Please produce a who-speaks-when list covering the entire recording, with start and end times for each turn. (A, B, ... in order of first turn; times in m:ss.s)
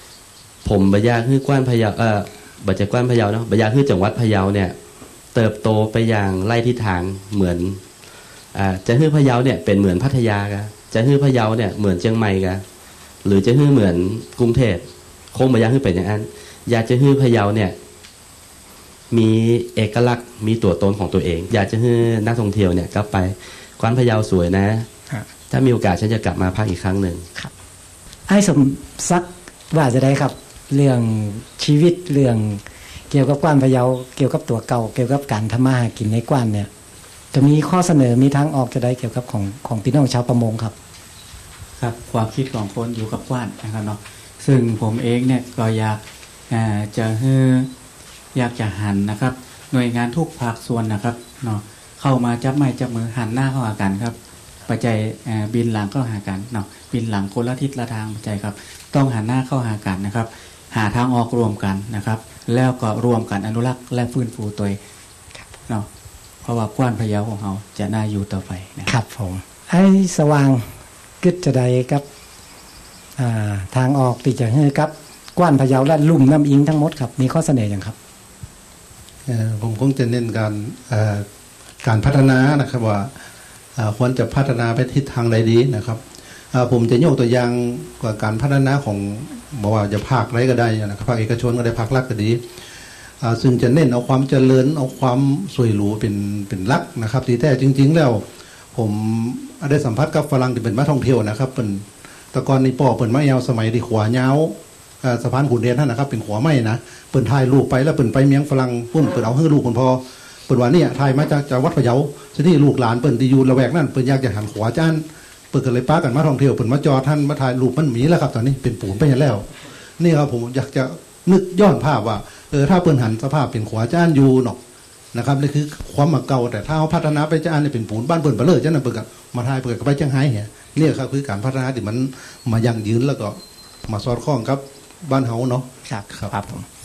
0:00.6-0:04.8 A
0:05.3-0:07.8 A
0:08.6-0:12.6 A
0:13.2-0:17.8 A
0:19.1-0:24.9 A
0:25.5-0:27.3 A
0:28.3-0:36.7 B
0:37.3-0:40.7 B
0:41.8-0:47.7 C
0:48.3-1:04.8 C
1:06.4-1:08.9 C
1:08.9-1:10.7 B
1:11.2-1:12.0 B
1:13.2-1:18.0 B
1:19.3-1:21.2 D
1:21.8-1:23.1 D
1:23.8-1:26.0 D
1:26.5-1:32.4 D
1:33.2-1:59.5 D
2:00.0-2:04.6 D
2:05.1-2:16.3 D
2:15.9-2:16.6 B